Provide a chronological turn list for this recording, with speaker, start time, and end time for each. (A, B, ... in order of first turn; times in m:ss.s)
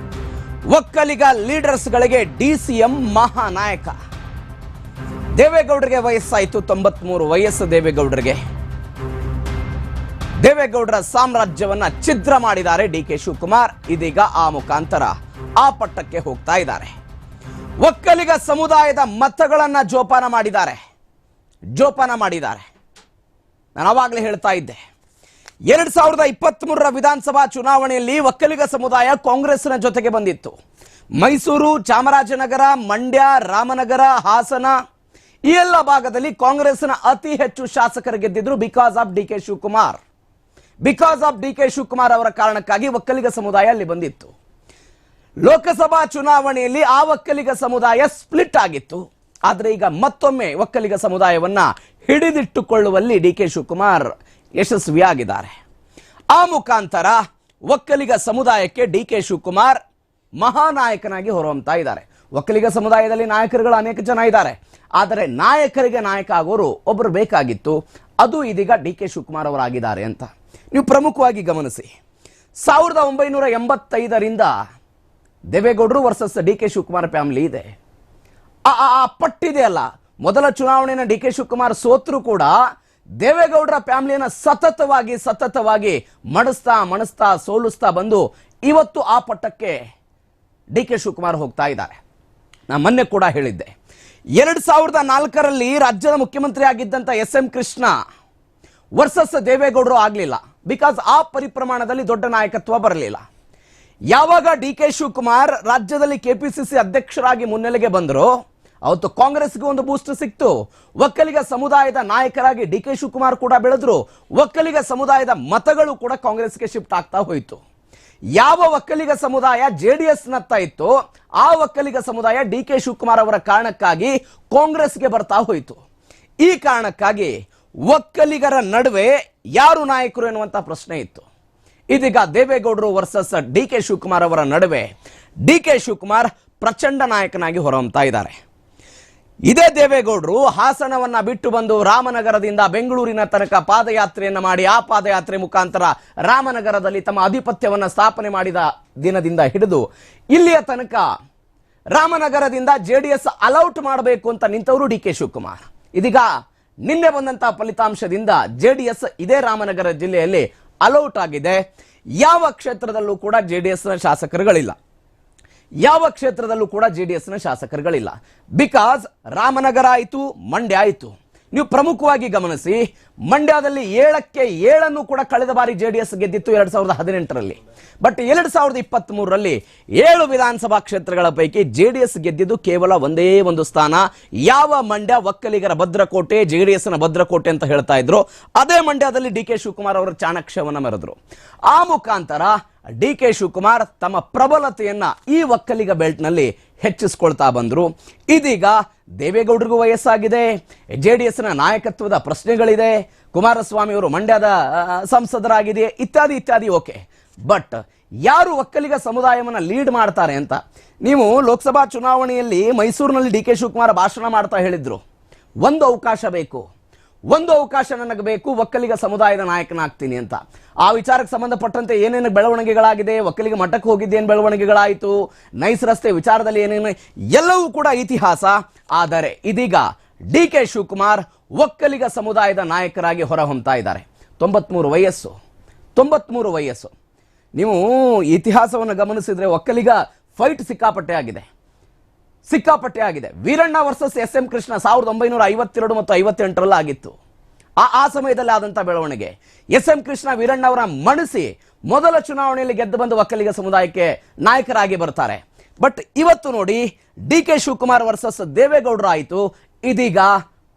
0:00.7-0:04.0 A
0:05.4-0:08.4 A
0:10.4-0:16.9 A
0:17.8-0:20.8 A
0:21.8-0:22.6 A
0:23.8-0:24.8 A
0:25.7-0:30.6 A
0:31.2-0:34.8 A
0:35.5-0:40.0 A
0:40.8-0:44.3 A
0:45.4-0:55.5 A
0:56.3-0:59.8 A
1:00.4-1:11.9 A
1:12.6-1:14.5 A
1:15.5-1:17.7 A
1:18.7-1:22.5 A
1:23.2-1:29.8 A
1:30.7-1:32.0 A
1:32.7-1:33.7 A
1:34.4-1:38.0 A
1:39.0-1:43.2 A
1:44.1-1:48.3 A
1:48.8-1:57.6 A
1:58.4-2:05.8 A
2:06.4-2:07.3 A
2:07.9-2:11.3 A
2:11.9-2:14.9 A
2:15.4-2:18.4 A
2:19.5-2:31.1 A
2:31.9-2:36.3 A
2:36.8-2:41.6 A
2:42.2-2:44.8 A
2:45.8-3:11.2 A
3:11.7-3:35.0 A
3:35.6-3:36.6 A
3:37.3-3:55.4 A
3:56.0-3:56.9 A
3:57.6-4:01.4 A
4:02.5-4:07.2 A
4:07.8-4:20.3 A